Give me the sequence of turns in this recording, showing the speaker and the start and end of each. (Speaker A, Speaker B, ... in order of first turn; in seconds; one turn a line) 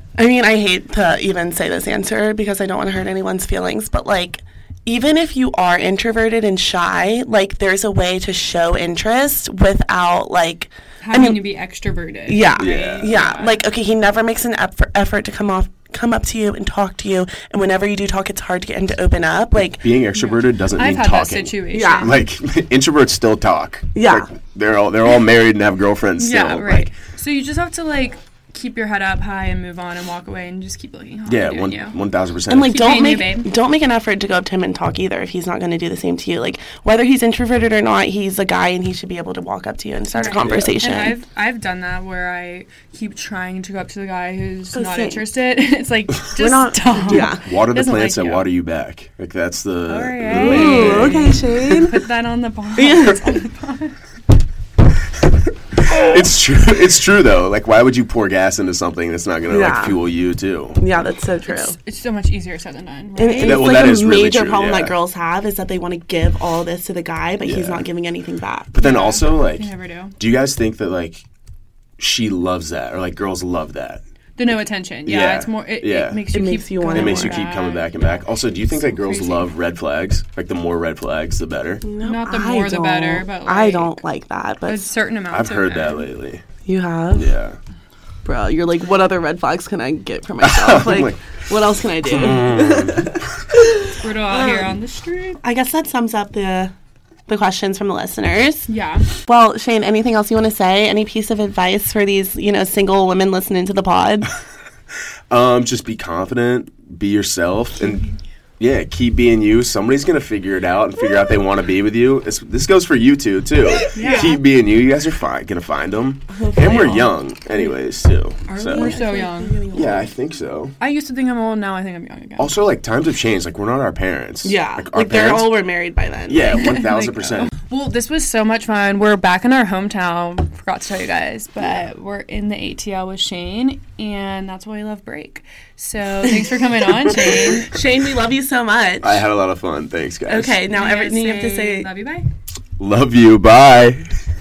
Speaker A: 0.2-11.4
Speaker B: 11.0-13.6
Speaker A: 12.3-19.8
Speaker C: 12.6-13.1
Speaker C: 19.8-26.9
Speaker B: 20.1-22.2
Speaker A: 21.7-22.1
Speaker A: 23.9-24.3
Speaker B: 26.2-32.0
Speaker C: 31.2-32.8
Speaker A: 32.5-41.2
Speaker B: 32.7-33.5
Speaker B: 40.1-48.5
Speaker C: 40.3-40.8
Speaker A: 44.7-45.2
Speaker A: 46.3-47.4
Speaker C: 47.2-51.5
Speaker B: 49.9-54.0
Speaker A: 50.3-52.0
Speaker A: 52.8-53.4
Speaker C: 55.9-60.8
Speaker A: 55.9-56.2
Speaker A: 59.5-60.0
Speaker A: 60.8-61.8
Speaker B: 61.5-63.7
Speaker A: 63.2-68.7
Speaker C: 63.3-64.9
Speaker C: 67.4-67.8
Speaker C: 68.7-71.2
Speaker B: 68.8-70.1
Speaker C: 72.0-74.0
Speaker B: 74.4-78.2
Speaker C: 75.0-76.2
Speaker A: 76.3-77.4
Speaker C: 76.9-81.8
Speaker B: 78.8-79.5
Speaker A: 81.8-84.9
Speaker B: 82.0-84.0
Speaker B: 84.7-86.1
Speaker C: 85.3-86.4
Speaker A: 86.6-87.3
Speaker C: 87.1-87.6
Speaker A: 88.2-94.7
Speaker C: 90.4-91.2
Speaker C: 92.0-93.2
Speaker B: 94.0-95.4
Speaker A: 95.4-96.7
Speaker A: 97.3-104.3
Speaker B: 98.7-99.1
Speaker C: 105.3-108.0
Speaker C: 108.6-118.9
Speaker A: 113.6-114.4
Speaker B: 113.9-114.3
Speaker A: 116.3-117.1
Speaker A: 118.5-120.1
Speaker B: 118.7-119.6
Speaker C: 119.7-120.7
Speaker B: 120.8-122.5
Speaker C: 122.4-125.5
Speaker A: 124.4-126.6
Speaker C: 126.3-127.5
Speaker B: 126.5-137.7
Speaker A: 137.2-139.2
Speaker C: 139.0-140.6
Speaker A: 140.3-141.9
Speaker B: 140.7-142.3
Speaker C: 142.8-144.1